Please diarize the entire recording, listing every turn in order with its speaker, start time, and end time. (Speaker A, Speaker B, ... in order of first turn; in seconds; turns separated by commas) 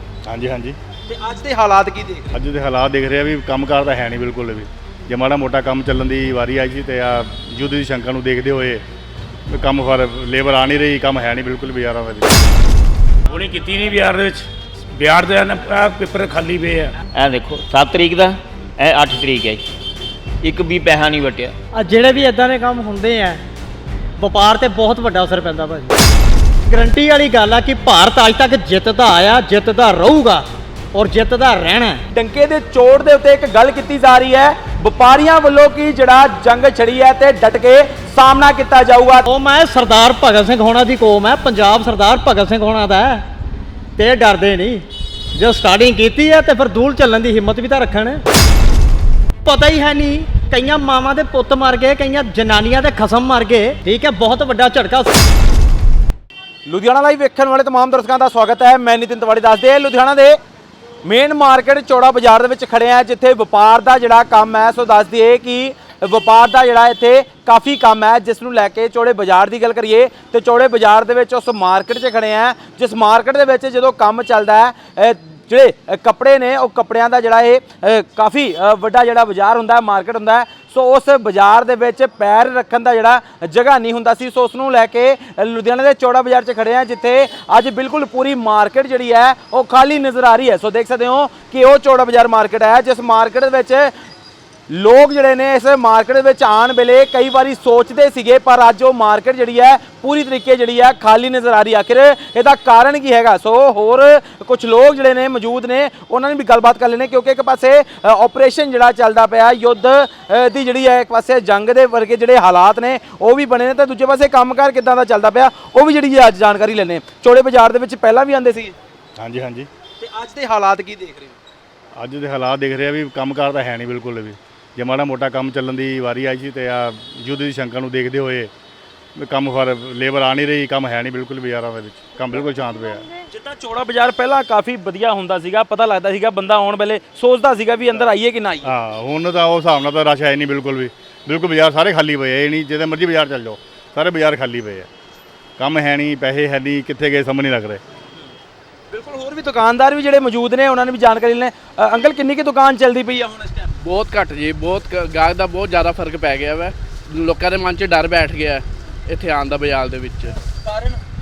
Speaker A: 0.3-0.8, Speaker B: 1.1-2.3, Speaker A: 2.3-8.8, Speaker A: 9.5-12.3, Speaker C: 13.3-16.9, Speaker D: 17.1-19.6, Speaker D: 20.4-21.5, Speaker E: 21.7-23.4, Speaker E: 24.2-25.9, Speaker E: 26.7-32.0, Speaker B: 32.1-39.3, Speaker E: 39.3-43.2, Speaker E: 44.0-48.2, Speaker E: 49.5-55.2, Speaker B: 56.7-60.4, Speaker B: 61.0-93.9, Speaker B: 94.7-118.8, Speaker A: 119.2-119.7, Speaker B: 120.0-121.4, Speaker A: 122.0-128.5, Speaker A: 129.2-133.0, Speaker B: 133.3-138.7, Speaker A: 138.7-144.9, Speaker A: 145.6-147.8, Speaker B: 148.9-153.8, Speaker F: 153.8-160.4, Speaker B: 160.6-161.0